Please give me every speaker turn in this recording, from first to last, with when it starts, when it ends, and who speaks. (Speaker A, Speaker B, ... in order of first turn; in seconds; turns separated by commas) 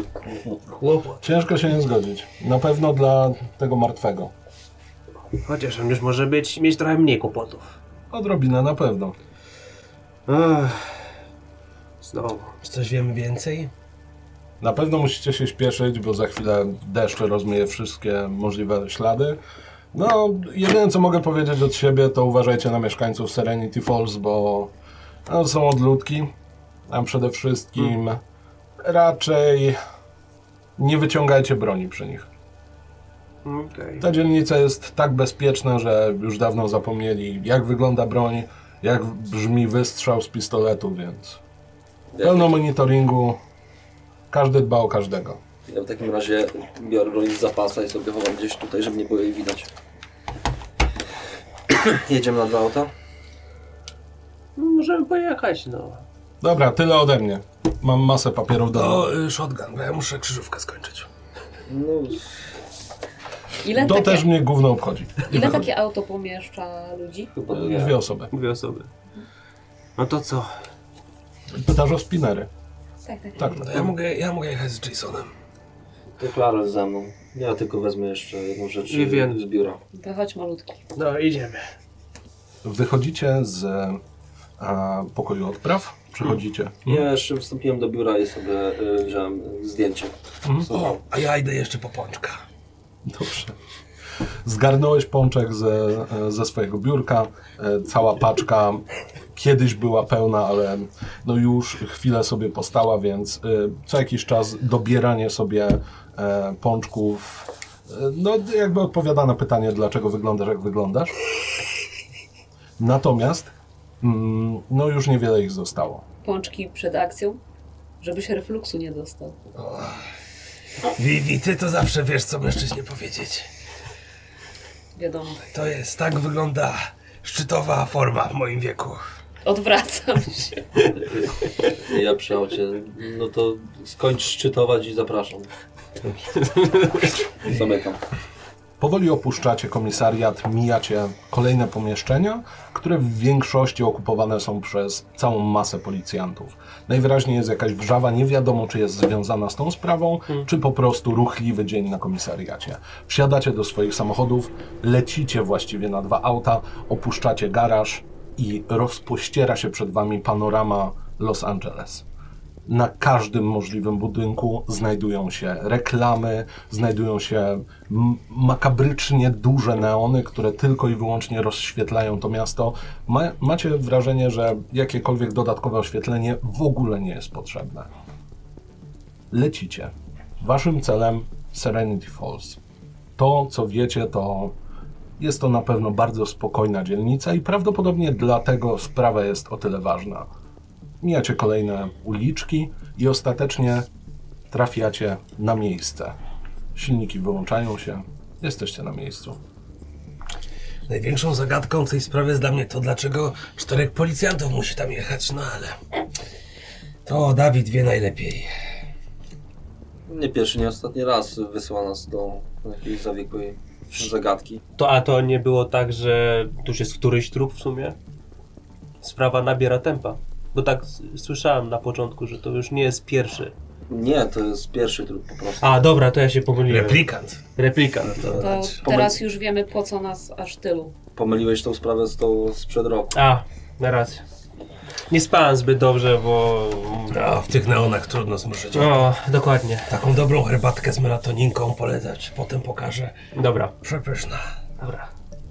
Speaker A: 0.8-1.1, Speaker B: 1.2-4.3, Speaker A: 5.3-7.7, Speaker B: 8.1-9.2, Speaker A: 10.3-11.1, Speaker A: 12.0-12.5, Speaker C: 12.6-13.7, Speaker B: 14.6-19.4, Speaker B: 19.9-24.7, Speaker B: 25.3-26.3, Speaker B: 26.9-28.2, Speaker B: 28.8-29.8, Speaker B: 30.8-32.3, Speaker A: 33.4-34.0, Speaker B: 34.0-41.4, Speaker D: 42.1-42.5, Speaker B: 42.2-43.4, Speaker B: 44.3-45.4, Speaker D: 45.7-49.7, Speaker D: 51.7-52.9, Speaker A: 54.5-56.0, Speaker B: 56.4-59.1, Speaker C: 58.7-61.1, Speaker D: 61.7-62.2, Speaker E: 63.6-64.3, Speaker B: 63.7-65.7, Speaker E: 65.3-67.3, Speaker D: 67.3-68.0, Speaker B: 67.5-68.3, Speaker A: 68.3-68.9, Speaker A: 70.0-70.5, Speaker B: 71.5-72.5, Speaker E: 73.0-73.6, Speaker B: 73.4-73.8, Speaker C: 73.5-75.3, Speaker D: 76.2-79.8, Speaker A: 78.9-79.4, Speaker E: 79.9-80.8, Speaker A: 80.9-81.7, Speaker B: 82.6-84.0, Speaker B: 84.6-87.0, Speaker D: 86.8-90.1, Speaker C: 90.7-92.4, Speaker B: 93.0-93.5, Speaker B: 94.4-111.1, Speaker B: 112.8-116.0, Speaker E: 116.2-117.4, Speaker E: 118.0-119.4, Speaker C: 119.5-120.0, Speaker C: 120.9-123.5, Speaker E: 125.0-125.4, Speaker C: 125.5-129.0, Speaker E: 129.4-130.6, Speaker D: 131.8-135.5, Speaker A: 136.3-137.2, Speaker D: 137.4-138.0, Speaker B: 138.8-162.0, Speaker B: 162.7-177.9, Speaker B: 179.3-182.6, Speaker B: 183.2-184.6, Speaker B: 185.2-190.3, Speaker B: 191.0-193.9, Speaker B: 194.5-196.2, Speaker B: 196.7-199.4, Speaker C: 200.9-205.8, Speaker C: 207.1-208.5, Speaker D: 210.1-214.6, Speaker A: 214.8-217.9, Speaker A: 219.0-223.5, Speaker D: 223.9-225.9, Speaker A: 225.6-227.0, Speaker C: 226.7-227.4, Speaker A: 227.6-228.5, Speaker C: 228.0-228.8, Speaker E: 228.4-230.9, Speaker D: 228.8-229.2, Speaker D: 231.2-233.2, Speaker A: 233.1-234.2, Speaker A: 235.1-237.2, Speaker C: 237.1-239.1, Speaker A: 238.7-239.9, Speaker C: 239.9-243.1, Speaker A: 243.3-243.7, Speaker C: 243.8-244.4, Speaker A: 244.8-245.1